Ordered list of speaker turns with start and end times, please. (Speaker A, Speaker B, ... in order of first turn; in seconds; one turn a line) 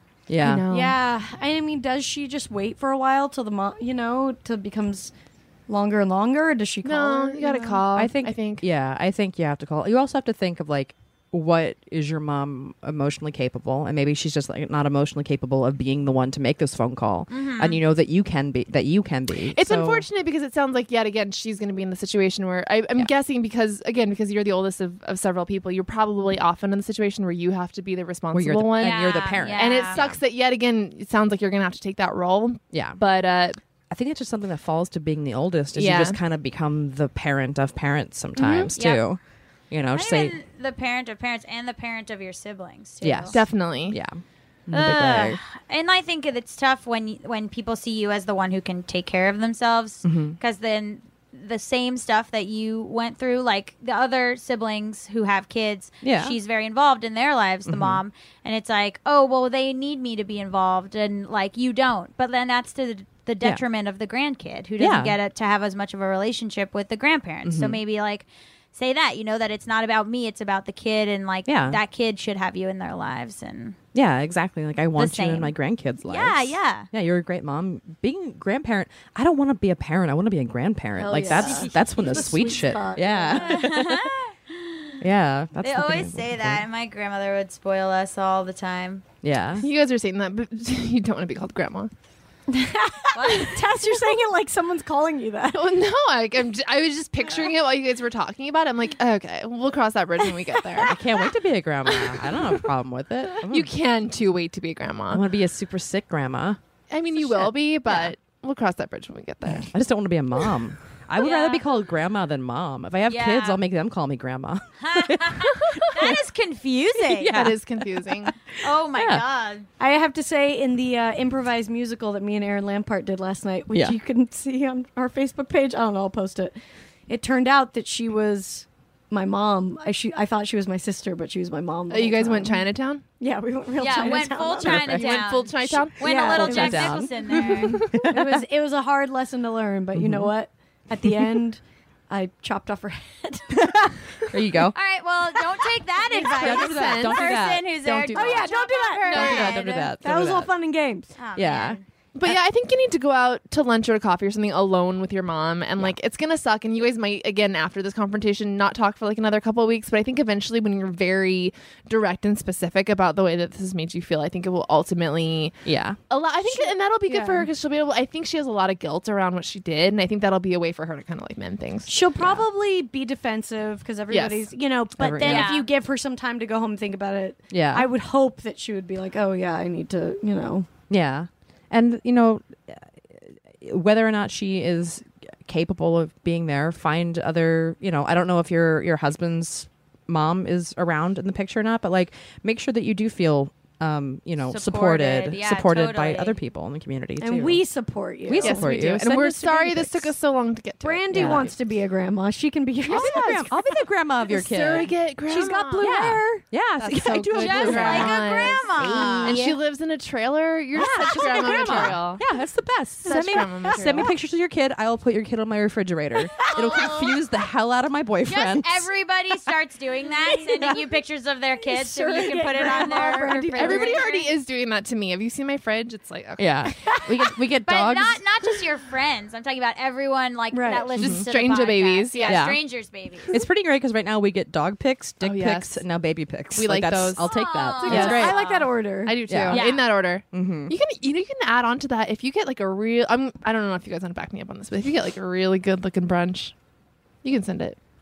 Speaker A: 0.3-0.6
Speaker B: 0.4-1.0
Speaker C: 0.7-5.1
Speaker C: 5.7-7.8
Speaker B: 6.8-8.6
Speaker A: 7.9-20.1
Speaker D: 17.3-17.8
Speaker B: 19.5-33.6
Speaker A: 28.3-30.2
Speaker D: 28.8-30.0
Speaker A: 32.7-33.0
Speaker A: 33.9-40.3
Speaker B: 35.7-36.2
Speaker B: 38.4-38.7
Speaker D: 38.8-39.0
Speaker D: 39.9-43.4
Speaker A: 43.0-45.4
Speaker B: 43.3-44.0
Speaker D: 44.7-73.8
Speaker A: 50.0-50.4
Speaker A: 56.0-56.4
Speaker A: 57.7-58.0
Speaker A: 64.8-65.1
Speaker A: 67.4-67.8
Speaker A: 71.5-71.8
Speaker A: 73.9-84.1
Speaker D: 75.0-76.9
Speaker C: 80.9-83.7
Speaker D: 81.3-81.6
Speaker D: 83.3-85.0
Speaker A: 85.0-86.6
Speaker D: 85.6-89.0
Speaker A: 89.2-89.7
Speaker B: 89.6-91.9
Speaker C: 92.5-95.7
Speaker D: 93.1-93.6
Speaker B: 95.5-101.0
Speaker A: 100.8-103.7
Speaker B: 101.9-102.6
Speaker B: 103.5-105.2
Speaker A: 105.1-106.6
Speaker B: 106.9-109.7
Speaker A: 107.2-108.1
Speaker A: 109.6-116.2
Speaker D: 111.2-111.6
Speaker D: 113.1-113.6
Speaker D: 114.8-117.5
Speaker B: 115.8-116.1
Speaker A: 117.1-118.3
Speaker B: 117.2-118.3
Speaker D: 118.6-119.7
Speaker A: 118.9-119.2
Speaker C: 119.8-126.5
Speaker C: 127.1-132.7
Speaker B: 131.9-133.0
Speaker C: 133.2-134.9
Speaker D: 133.8-137.8
Speaker A: 134.6-135.0
Speaker B: 134.7-137.7
Speaker C: 136.0-136.9
Speaker A: 136.3-138.4
Speaker C: 137.9-143.6
Speaker A: 139.9-140.3
Speaker A: 143.5-144.8
Speaker D: 144.7-149.9
Speaker B: 146.1-148.5
Speaker A: 146.2-148.3
Speaker C: 148.1-151.1
Speaker B: 149.1-149.6
Speaker A: 149.1-150.5
Speaker D: 151.2-151.8
Speaker A: 151.3-152.4
Speaker B: 152.1-165.5
Speaker A: 165.6-166.0
Speaker B: 166.1-172.1
Speaker C: 166.5-167.5
Speaker C: 171.9-180.7
Speaker B: 174.1-174.5
Speaker A: 175.0-175.5
Speaker D: 175.2-175.7
Speaker A: 177.5-177.9
Speaker A: 180.9-197.6
Speaker D: 194.5-196.4
Speaker C: 197.2-198.8
Speaker A: 198.2-200.1
Speaker B: 198.4-201.5
Speaker C: 200.8-203.5
Speaker A: 201.1-201.5
Speaker B: 202.8-203.5
Speaker A: 202.9-204.9
Speaker B: 204.3-206.0
Speaker C: 205.2-206.5
Speaker A: 205.8-209.6
Speaker B: 206.8-212.2
Speaker D: 207.3-209.5
Speaker A: 210.7-218.9
Speaker C: 211.2-211.5
Speaker B: 213.0-214.1
Speaker C: 213.0-214.1
Speaker C: 216.3-217.1
Speaker D: 216.5-217.1
Speaker D: 218.2-224.3
Speaker C: 221.6-224.2
Speaker B: 223.3-226.7
Speaker A: 226.4-228.2
Speaker D: 227.6-233.3
Speaker C: 230.5-230.9
Speaker B: 230.9-232.6
Speaker A: 231.0-231.2
Speaker A: 232.3-232.6
Speaker A: 233.3-238.4
Speaker B: 235.2-235.8
Speaker B: 236.5-237.3
Speaker D: 237.2-238.7
Speaker C: 237.8-239.2
Speaker B: 237.9-238.2
Speaker B: 239.1-246.5
Speaker A: 239.3-239.6
Speaker D: 239.5-239.8
Speaker A: 240.3-240.8
Speaker B: 247.2-247.8